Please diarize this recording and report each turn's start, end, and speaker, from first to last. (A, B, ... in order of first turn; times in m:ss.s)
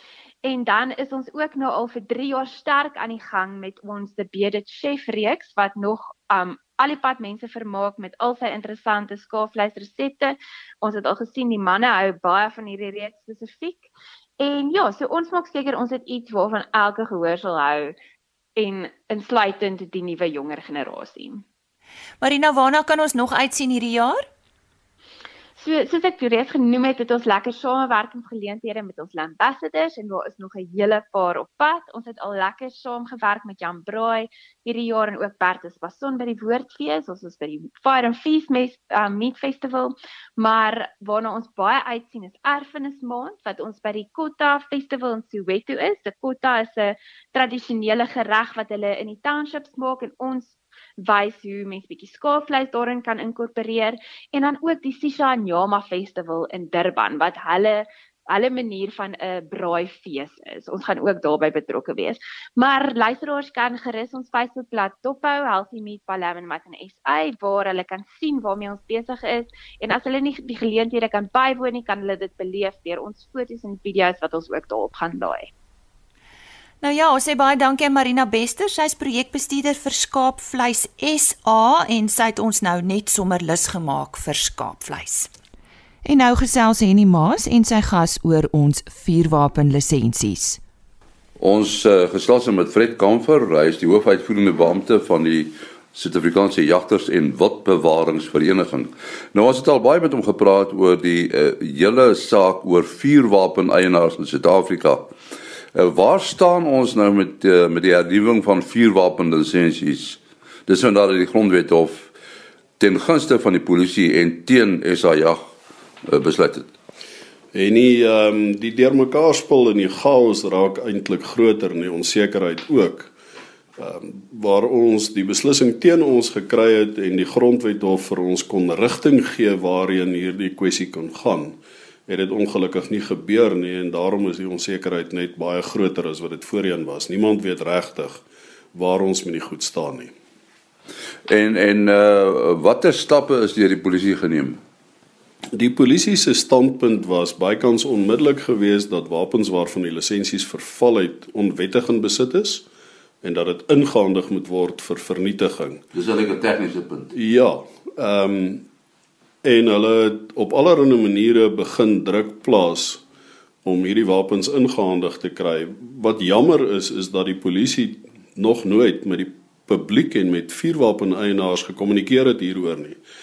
0:00.4-0:17.9 A
0:18.6-0:21.4 A
0:22.2-0:24.3 B
0:25.6-1:15.5 A
1:16.8-1:25.3 B
1:26.0-1:30.6 B
1:31.4-1:45.1 C
1:45.7-1:52.1 C
1:52.8-1:55.4 C
1:56.0-1:56.7 C
1:57.5-2:03.1 D
2:03.8-2:18.2 D
2:18.7-2:20.1 D
2:21.3-2:24.6 C
2:25.5-2:32.6 D
2:33.2-2:35.8 D
2:35.9-2:37.1 C
2:37.1-2:38.6 D
2:39.4-2:43.0 D
2:43.6-2:53.0 D